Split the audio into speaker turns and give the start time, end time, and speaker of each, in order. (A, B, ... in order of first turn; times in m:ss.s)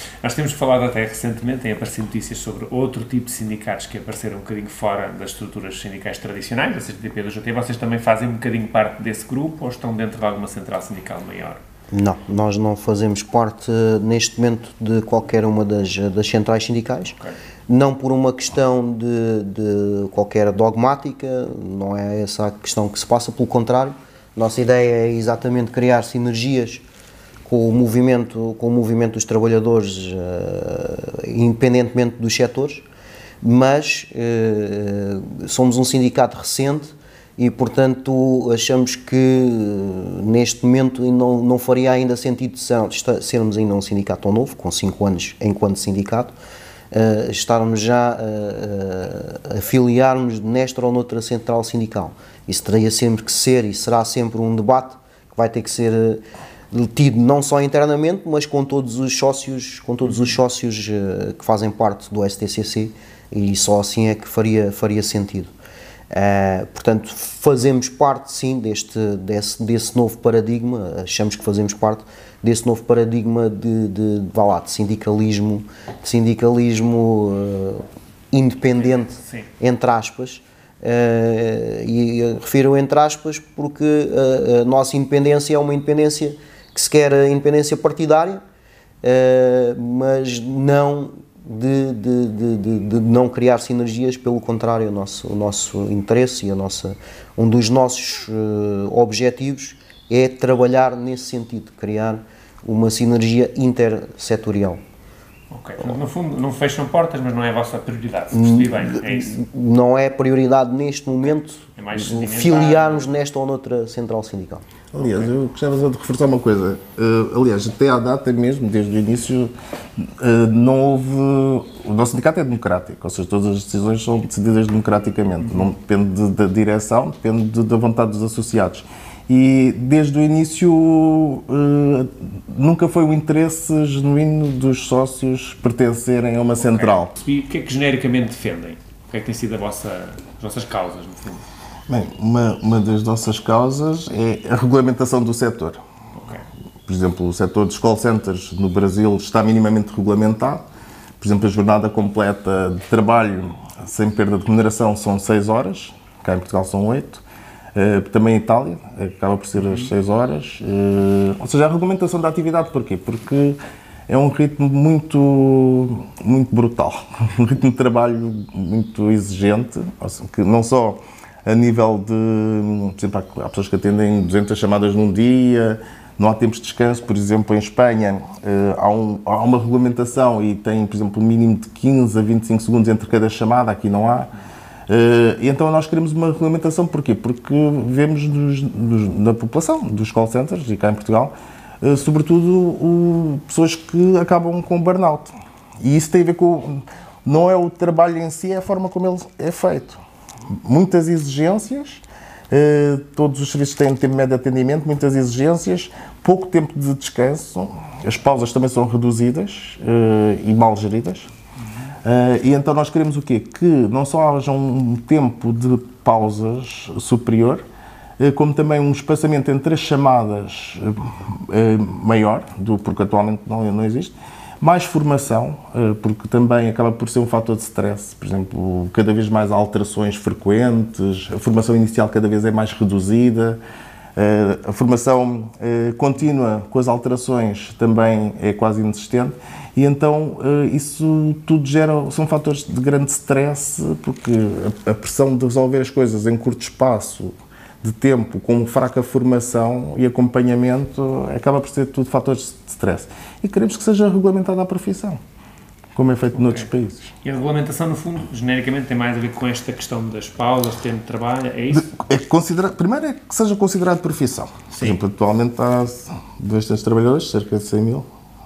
0:00.2-0:11.6 A
0:11.9-0:17.2 B
0:17.7-0:26.8 B
0:27.4-0:32.8 B
0:33.4-0:46.3 B
0:46.9-1:05.5 B
1:06.1-1:28.4 B
1:18.7-1:19.5 A
1:29.0-1:44.8 B
1:45.5-1:49.4 A
1:48.3-1:54.6 B
1:51.8-1:53.1 A
1:54.9-2:17.1 C
1:55.0-1:55.3 A
2:16.6-2:21.4 A
2:21.9-2:25.8 C
2:26.1-2:26.4 A
2:26.8-2:30.6 C
2:31.2-2:37.2 C
2:37.7-3:04.3 C
2:39.6-2:39.9 A
3:04.9-3:20.0 C
3:20.6-3:31.3 C
3:32.0-3:37.6 C
3:38.2-3:53.6 C
3:54.2-4:15.2 C
4:15.9-4:17.1 C
4:16.3-4:16.7 A
4:17.2-4:21.9 A
4:21.7-4:28.1 C
4:24.7-4:25.0 A